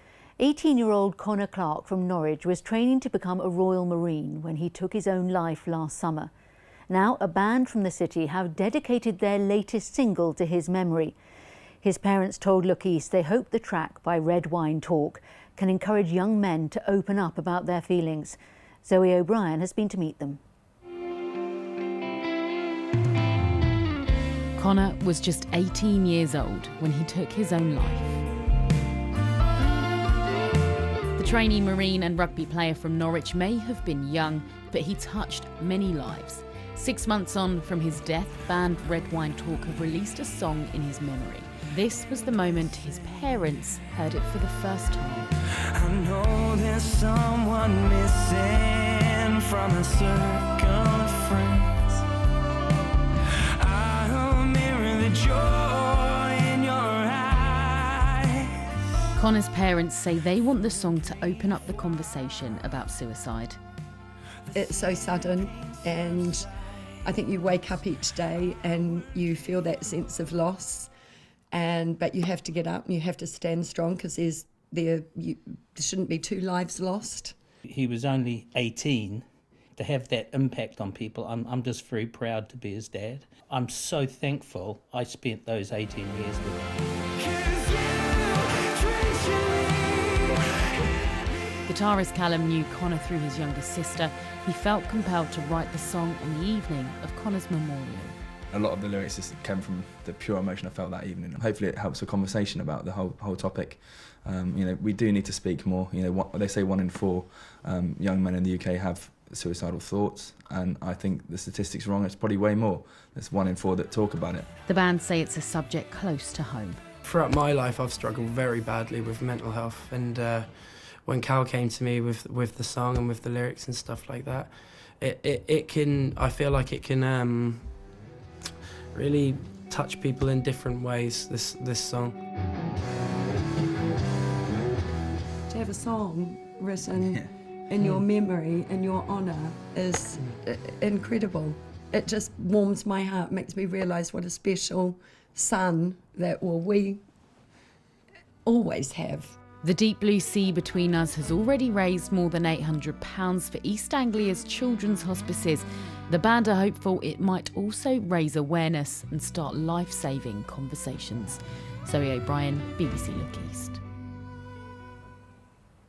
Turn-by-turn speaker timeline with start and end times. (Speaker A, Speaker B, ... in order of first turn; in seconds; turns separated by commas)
Speaker A: 0.4-6.3, Speaker A: 6.9-11.1, Speaker A: 11.8-20.4, Speaker B: 24.6-28.2, Speaker B: 31.1-45.3, Speaker C: 45.7-52.0, Speaker C: 53.6-58.5, Speaker B: 59.2-63.6, Speaker D: 64.5-66.5, Speaker D: 67.0-70.9, Speaker D: 71.5-77.3, Speaker E: 77.7-79.2, Speaker E: 79.8-86.6, Speaker C: 87.2-88.1, Speaker E: 87.5-90.2, Speaker C: 88.9-89.5, Speaker B: 91.7-98.2, Speaker F: 98.5-114.5, Speaker B: 114.7-116.8, Speaker G: 117.0-127.9, Speaker G: 128.9-132.2, Speaker D: 135.5-147.0, Speaker D: 148.4-149.4, Speaker B: 149.6-163.8